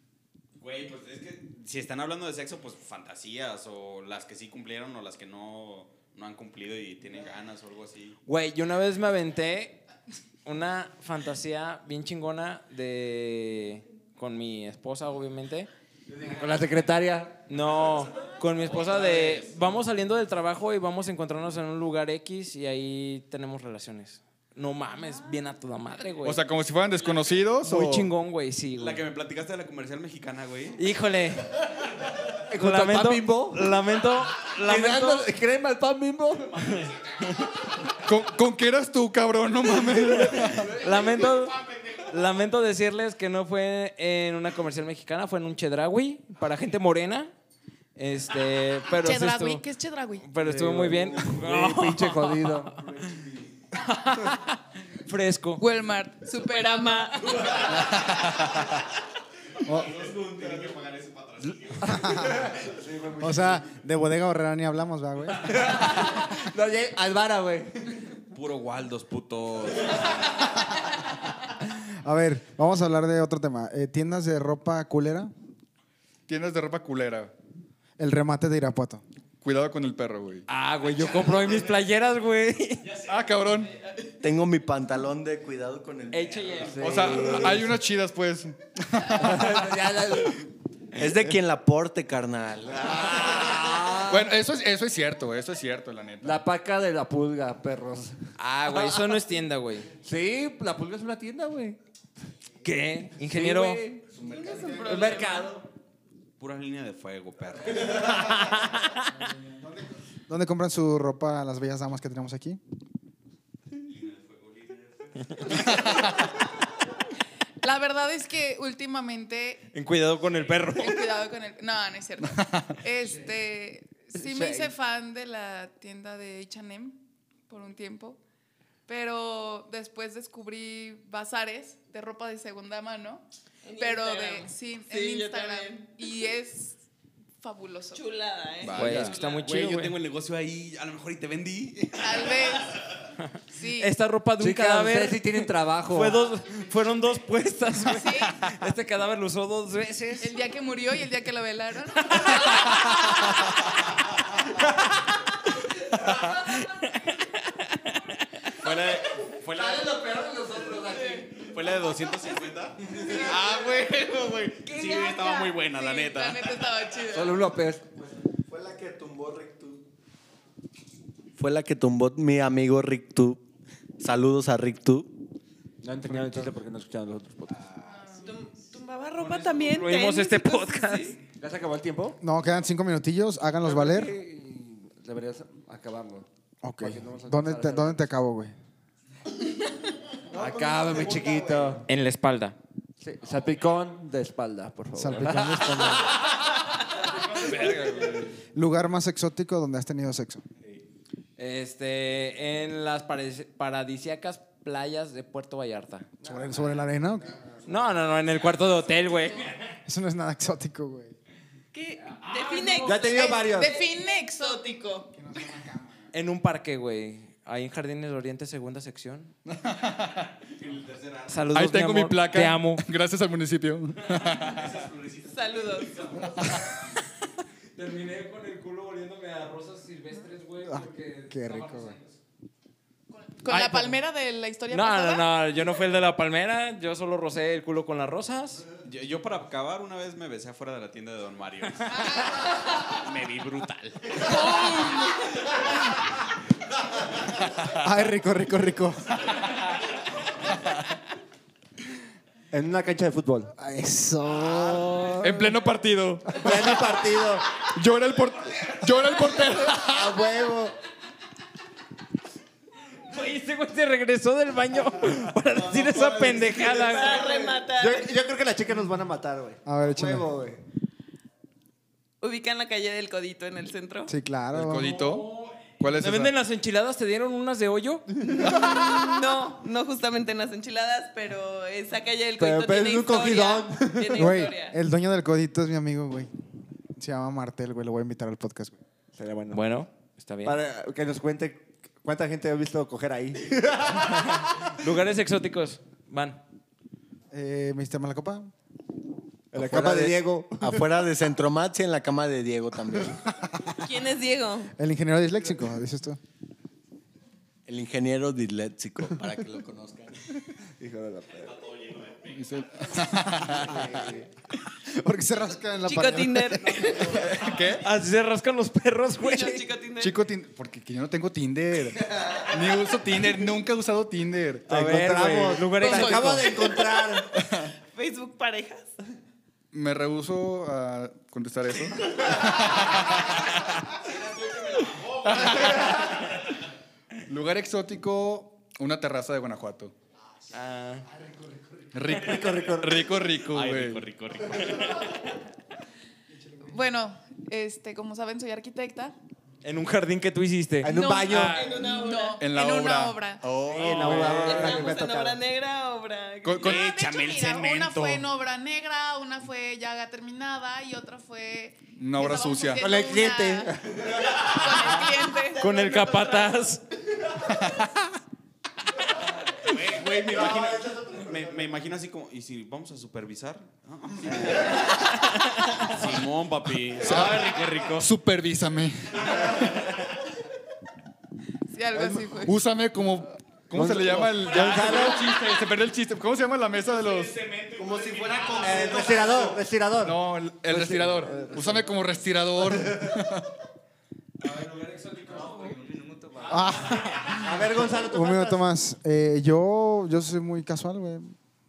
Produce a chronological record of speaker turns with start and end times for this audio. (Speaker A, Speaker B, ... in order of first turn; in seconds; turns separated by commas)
Speaker A: 0.6-8.2, Speaker B: 8.3-9.8, Speaker B: 10.4-15.7, Speaker C: 16.1-17.4, Speaker B: 17.5-26.4, Speaker A: 18.9-19.4, Speaker D: 26.2-28.1, Speaker B: 27.6-29.0, Speaker A: 28.8-30.8, Speaker B: 30.8-31.6, Speaker C: 32.5-33.8, Speaker B: 32.6-35.3, Speaker C: 34.6-36.7, Speaker D: 38.0-40.8, Speaker B: 40.6-47.3, Speaker B: 48.0-49.6, Speaker E: 49.0-50.2, Speaker B: 50.2-52.7, Speaker C: 50.4-53.4, Speaker B: 53.8-55.6, Speaker E: 55.6-57.7, Speaker F: 56.3-57.8, Speaker A: 59.6-62.4, Speaker G: 61.9-62.5, Speaker C: 62.1-63.6, Speaker G: 63.2-65.9, Speaker C: 65.4-67.9, Speaker A: 68.3-70.2, Speaker G: 71.7-75.3, Speaker D: 76.3-77.3, Speaker G: 78.0-79.0, Speaker D: 79.4-80.5, Speaker B: 80.5-82.9, Speaker D: 83.0-83.8, Speaker H: 84.2-86.6, Speaker B: 86.1-87.5, Speaker C: 86.5-87.8, Speaker D: 86.8-90.2, Speaker C: 89.1-90.5, Speaker H: 91.0-93.4, Speaker C: 92.7-94.3, Speaker D: 94.0-96.4, Speaker C: 96.2-99.2, Speaker B: 98.4-99.9, Speaker C: 100.0-101.8, Speaker B: 102.6-103.8, Speaker C: 103.2-105.6, Speaker F: 104.2-105.5, Speaker H: 104.2-104.9, Speaker A: 106.4-108.2, Speaker B: 108.3-109.0, Speaker G: 109.0-112.6, Speaker A: 113.8-115.8, Speaker D: 115.7-116.1, Speaker E: 117.6-119.7, Speaker B: 119.7-121.1, Speaker E: 120.7-128.2, Speaker D: 122.4-122.7, Speaker B: 124.3-124.7, Speaker E: 128.9-133.2, Speaker F: 133.6-136.1, Speaker E: 133.8-136.8, Speaker E: 137.4-138.0, Speaker F: 137.9-139.4, Speaker A: 138.6-142.6, Speaker B: 138.7-139.9, Speaker E: 142.0-142.8, Speaker E: 143.5-143.9, Speaker B: 143.8-150.3, Speaker C: 144.4-146.2, Speaker E: 147.9-148.4, Speaker E: 150.2-153.3, Speaker B: 156.2-158.1, Speaker A: 158.6-160.1, Speaker C: 159.6-161.2, Speaker F: 160.8-161.4, Speaker A: 161.3-166.7, Speaker E: 164.7-167.5, Speaker C: 167.1-167.9, Speaker H: 168.5-169.8, Speaker H: 171.4-173.4, Speaker H: 174.0-175.1, Speaker C: 175.8-177.7, Speaker G: 176.1-176.5, Speaker E: 177.8-178.4, Speaker F: 178.2-181.2, Speaker B: 179.2-181.1, Speaker C: 181.4-182.2, Speaker G: 182.2-184.1, Speaker C: 183.6-186.3, Speaker G: 186.6-188.5, Speaker C: 186.8-188.1, Speaker H: 190.3-191.8, Speaker C: 190.3-191.8, Speaker B: 191.8-192.6, Speaker C: 193.0-196.3, Speaker G: 194.9-196.2, Speaker D: 197.2-198.3, Speaker B: 197.5-198.1, Speaker G: 198.5-200.4, Speaker B: 201.4-206.1, Speaker G: 206.2-207.4, Speaker B: 207.7-209.7, Speaker G: 209.9-211.2, Speaker F: 211.7-215.4, Speaker B: 212.0-213.0, Speaker C: 212.8-213.8, Speaker E: 212.9-214.6, Speaker G: 215.1-216.0, Speaker B: 216.1-219.3, Speaker D: 219.4-220.3, Speaker A: 220.5-221.4, Speaker B: 221.3-222.9, Speaker D: 221.5-224.9, Speaker A: 224.4-226.3, Speaker F: 225.3-226.5, Speaker B: 227.8-232.2, Speaker G: 230.7-232.0, Speaker E: 233.1-235.3, Speaker B: 233.5-234.0, Speaker B: 234.7-238.6, Speaker A: 238.8-242.4, Speaker A: 242.9-244.8, Speaker E: 244.3-244.9, Speaker G: 247.8-249.2, Speaker C: 252.5-253.5, Speaker G: 253.6-255.3, Speaker D: 255.2-256.8, Speaker C: 256.3-257.5, Speaker D: 257.6-260.2, Speaker C: 259.6-260.8, Speaker B: 263.1-267.2, Speaker H: 265.7-266.6, Speaker F: 266.7-268.1, Speaker C: 267.6-270.6, Speaker G: 269.6-270.3, Speaker F: 272.2-274.1, Speaker G: 274.1-274.9, Speaker D: 274.5-276.4, Speaker B: 274.7-278.1, Speaker F: 278.2-284.8, Speaker C: 282.4-284.5, Speaker G: 284.1-286.3, Speaker G: 286.9-288.8, Speaker C: 289.1-289.6, Speaker B: 289.5-290.6, Speaker C: 290.4-294.4, Speaker B: 294.6-296.4, Speaker G: 297.3-298.5, Speaker C: 299.5-301.0, Speaker H: 300.6-303.2, Speaker F: 303.8-304.7, Speaker G: 304.8-306.2, Speaker H: 307.7-310.1, Speaker C: 310.8-311.6, Speaker A: 311.4-312.9, Speaker D: 312.3-313.9, Speaker C: 313.4-314.3, Speaker G: 314.9-317.0, Speaker F: 315.8-317.4, Speaker D: 317.1-317.9, Speaker B: 317.7-319.6, Speaker F: 319.2-320.2, Speaker D: 320.0-324.7, Speaker C: 324.7-327.4, Speaker B: 324.7-326.6, Speaker E: 325.8-326.2, Speaker F: 325.9-327.2, Speaker D: 327.4-327.7, Speaker F: 327.8-328.9, Speaker D: 329.7-333.9, Speaker A: 334.5-335.4, Speaker D: 335.2-336.3, Speaker D: 337.3-339.9, Speaker B: 340.5-341.0, Speaker D: 341.9-344.0, Speaker C: 342.1-343.1, Speaker A: 343.5-345.3, Speaker E: 346.6-349.1, Speaker B: 349.6-351.7, Speaker C: 350.8-351.7, Speaker F: 350.9-352.4, Speaker E: 351.7-353.5, Speaker D: 352.4-354.9, Speaker C: 353.6-355.4, Speaker F: 354.0-356.7, Speaker D: 356.4-356.8, Speaker E: 356.6-365.6, Speaker A: 356.6-358.3, Speaker D: 361.9-362.9, Speaker C: 362.8-364.2, Speaker F: 364.6-366.7, Speaker B: 365.6-366.8, Speaker A: 369.6-374.9, Speaker C: 369.9-371.7, Speaker B: 375.3-375.7, Speaker A: 375.8-378.1, Speaker D: 377.0-380.0, Speaker E: 381.7-382.6, Speaker D: 382.4-387.4, Speaker C: 383.7-385.4, Speaker A: 384.6-385.3, Speaker A: 386.9-389.3, Speaker H: 387.8-389.6, Speaker C: 388.6-392.0, Speaker D: 390.0-393.5, Speaker C: 392.6-393.0, Speaker B: 394.4-395.8, Speaker B: 396.4-397.4, Speaker G: 396.5-401.4, Speaker C: 397.4-398.7